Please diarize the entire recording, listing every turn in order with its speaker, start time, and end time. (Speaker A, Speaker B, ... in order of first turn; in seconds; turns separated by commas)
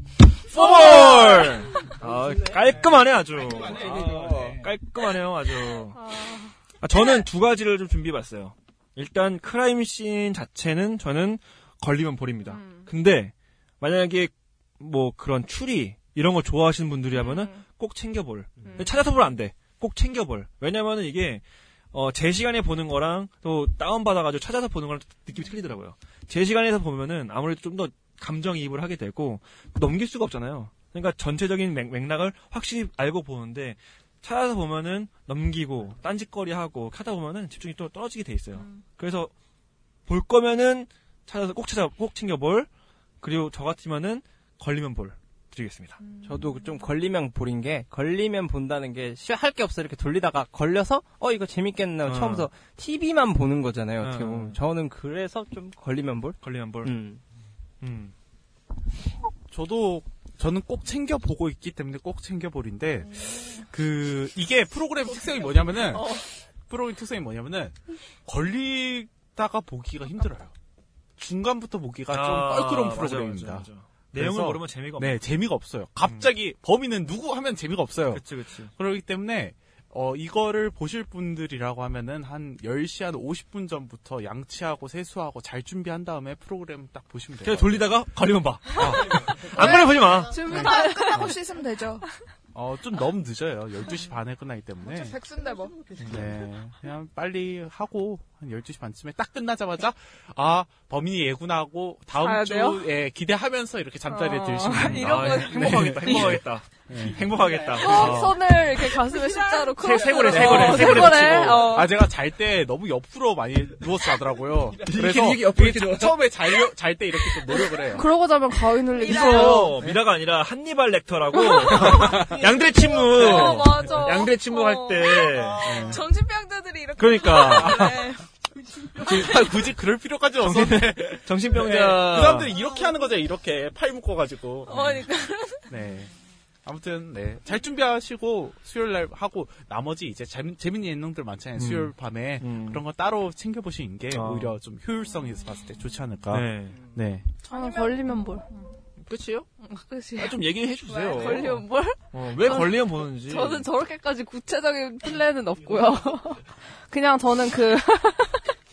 Speaker A: 0.5-6.0, Speaker B: 0.5-1.6, Speaker C: 3.8-4.7, Speaker D: 5.9-6.5, Speaker A: 6.8-39.3, Speaker D: 12.4-12.9, Speaker D: 17.1-17.6, Speaker D: 18.6-19.1, Speaker A: 40.1-42.7, Speaker A: 43.2-46.0, Speaker B: 46.0-46.8, Speaker C: 46.2-57.2, Speaker A: 52.0-52.5, Speaker A: 54.0-54.6, Speaker A: 56.4-56.9, Speaker A: 57.8-58.1, Speaker E: 59.5-70.5, Speaker E: 71.2-87.9, Speaker A: 72.1-75.2, Speaker A: 76.0-76.3, Speaker A: 78.1-78.7, Speaker A: 87.4-90.4, Speaker E: 88.8-89.4, Speaker B: 89.6-92.0, Speaker D: 90.3-91.3, Speaker E: 92.5-95.2, Speaker B: 94.8-95.8, Speaker E: 96.1-107.3, Speaker D: 102.2-102.9, Speaker D: 104.1-106.4, Speaker A: 104.7-108.4, Speaker D: 107.7-112.1, Speaker B: 108.9-109.8, Speaker A: 109.8-111.7, Speaker E: 110.2-118.1, Speaker A: 114.8-116.2, Speaker D: 117.7-119.8, Speaker A: 119.0-125.8, Speaker D: 121.4-125.2, Speaker E: 121.6-122.5, Speaker E: 123.2-124.0, Speaker B: 125.1-128.2, Speaker E: 125.6-126.1, Speaker A: 127.0-128.0, Speaker E: 127.5-128.0, Speaker E: 128.9-135.0, Speaker A: 129.0-129.6, Speaker A: 130.4-132.6, Speaker B: 134.7-135.7, Speaker E: 135.7-136.1, Speaker E: 136.6-147.3, Speaker A: 141.6-142.8, Speaker A: 144.1-144.6, Speaker A: 146.3-146.9, Speaker B: 147.4-148.4, Speaker D: 147.4-148.4, Speaker A: 149.0-149.4, Speaker D: 149.6-150.4, Speaker A: 150.2-153.7, Speaker B: 150.9-151.6, Speaker D: 151.1-158.5